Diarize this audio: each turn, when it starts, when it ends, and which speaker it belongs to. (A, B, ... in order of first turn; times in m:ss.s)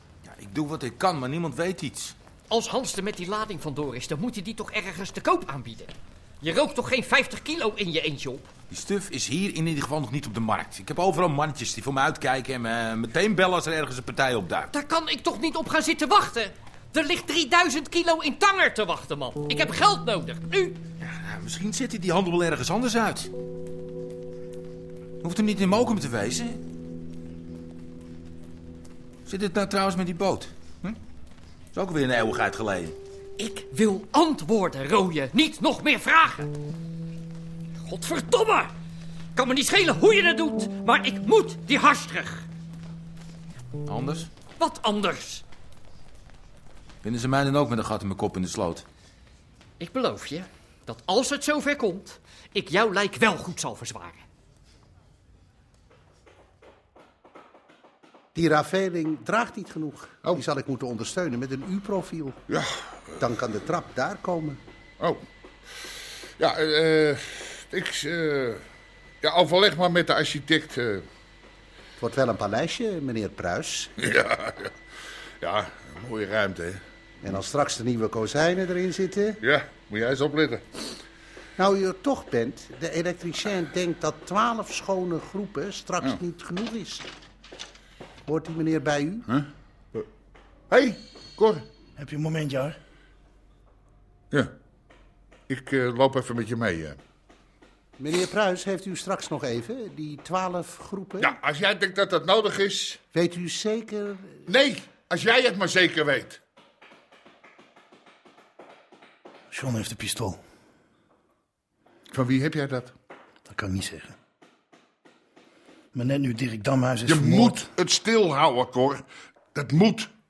0:00.2-0:02.1 A
0:02.5-0:05.9 B
0:06.4-0:08.4 B
0:08.7-0:14.7 A
0:14.8-0:20.8 B
0:21.0-0:23.3 A
0:25.2-0:26.6 A
0:29.2-0:31.0 A
0:31.7-0:33.0 A
0:33.4-0:36.5 B
0:37.9-0:38.7 B
0:39.4-0:42.4 B
0:43.8-0:44.3 A
0:44.6-0:45.4 B
0:47.0-0:48.8 A
0:49.8-0:54.2 B
0:58.4-1:02.4 C
1:02.5-1:03.2 D
1:03.2-1:04.6 C
1:06.4-1:08.6 D
1:09.2-1:11.1 D
1:12.0-1:13.9 C
1:14.0-1:14.7 D
1:15.4-1:16.8 D
1:17.2-1:19.4 C
1:19.4-1:20.6 D
1:21.6-1:27.0 C
1:28.3-1:29.2 C
1:29.3-1:30.0 D
1:30.7-1:31.6 D
1:32.0-1:32.8 E
1:35.5-1:37.0 D
1:38.0-1:41.3 C
1:41.2-1:43.0 D
1:43.1-1:44.3 C
1:44.5-1:46.4 D
1:49.5-1:50.4 E
1:52.1-1:52.9 D
1:53.5-1:54.1 E
1:55.9-1:57.7 E
1:57.1-2:00.1 D